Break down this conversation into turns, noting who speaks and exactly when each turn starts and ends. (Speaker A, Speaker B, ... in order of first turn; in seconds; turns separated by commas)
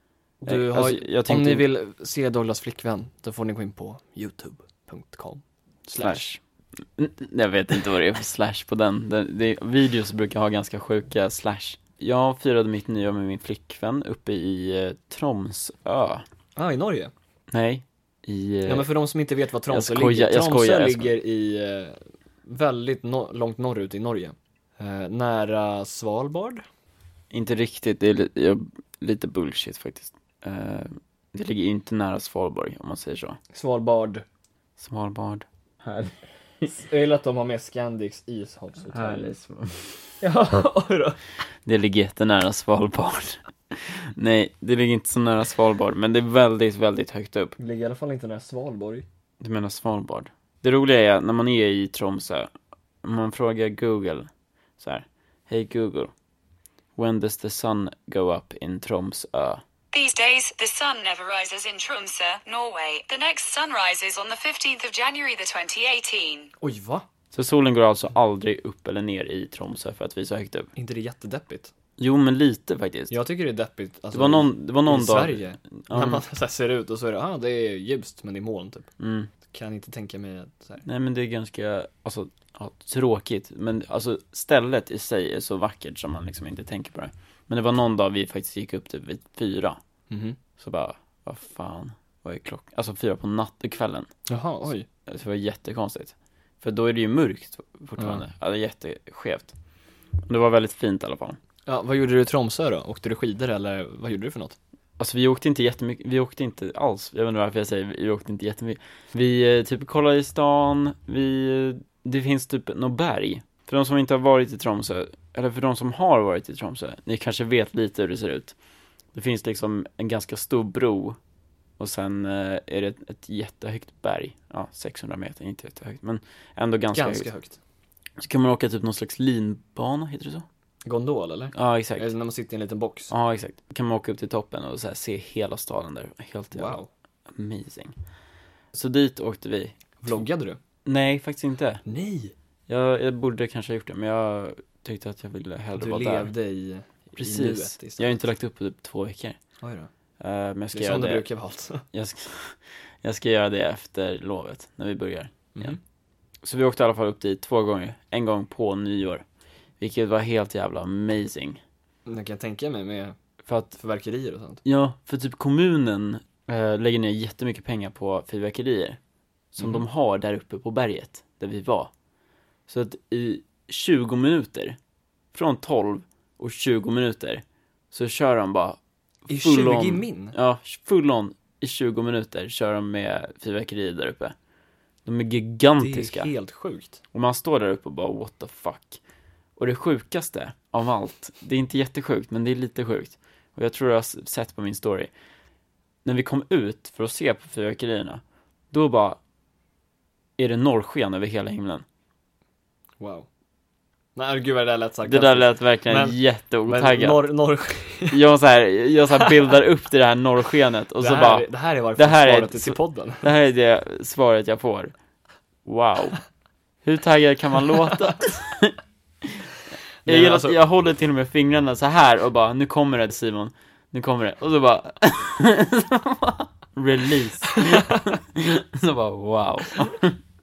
Speaker A: 0.4-6.2, Speaker B: 0.5-1.6, Speaker B: 5.9-16.2, Speaker A: 16.6-17.1, Speaker B: 17.5-18.9, Speaker A: 18.6-26.6, Speaker B: 19.7-21.1, Speaker B: 27.3-33.4, Speaker A: 33.5-34.2, Speaker B: 34.8-36.1, Speaker A: 36.6-39.3, Speaker B: 38.9-40.1, Speaker A: 40.2-41.2, Speaker B: 41.6-47.5, Speaker A: 47.6-49.0, Speaker B: 49.4-52.5, Speaker B: 53.0-56.1, Speaker B: 57.0-59.6, Speaker C: 59.9-66.5, Speaker A: 66.6-67.0, Speaker B: 67.3-70.7, Speaker A: 70.8-71.7, Speaker B: 72.0-73.1, Speaker A: 73.1-78.9, Speaker B: 74.1-76.2, Speaker B: 79.0-79.3, Speaker A: 79.5-80.8, Speaker B: 80.8-89.8, Speaker A: 90.1-90.4, Speaker B: 90.6-94.1, Speaker A: 94.3-94.8, Speaker B: 95.0-99.5, Speaker B: 100.2-101.4, Speaker A: 101.7-104.5, Speaker B: 105.0-118.5, Speaker B: 119.1-121.2, Speaker B: 121.8-127.3, Speaker A: 126.9-127.6, Speaker B: 128.2-130.4, Speaker A: 130.8-133.1, Speaker B: 131.5-132.1, Speaker B: 133.1-136.8, Speaker A: 136.5-136.9, Speaker B: 137.3-137.9, Speaker B: 138.7-140.2, Speaker A: 140.0-140.6, Speaker B: 140.8-141.8, Speaker A: 141.8-142.3, Speaker B: 142.7-146.3, Speaker A: 145.8-148.2, Speaker B: 147.2-149.4, Speaker A: 149.6-149.9, Speaker B: 150.2-151.2, Speaker A: 150.7-151.8, Speaker B: 151.9-155.8, Speaker B: 156.4-159.2, Speaker B: 159.8-161.6, Speaker A: 162.1-163.2, Speaker B: 163.4-163.7, Speaker A: 163.7-164.6, Speaker B: 164.6-169.0, Speaker B: 169.5-171.9, Speaker A: 169.6-169.8, Speaker B: 172.7-174.8, Speaker B: 175.3-184.3, Speaker A: 179.3-180.3, Speaker B: 185.0-186.3, Speaker A: 185.8-187.0, Speaker B: 187.1-189.0, Speaker B: 189.6-195.1, Speaker B: 196.0-199.2, Speaker B: 200.4-201.8, Speaker A: 203.0-203.3, Speaker A: 204.2-208.2, Speaker B: 205.1-207.2, Speaker B: 208.1-214.9, Speaker A: 211.0-213.2, Speaker B: 215.7-216.2, Speaker B: 216.8-219.5, Speaker A: 220.0-220.6, Speaker B: 220.1-230.2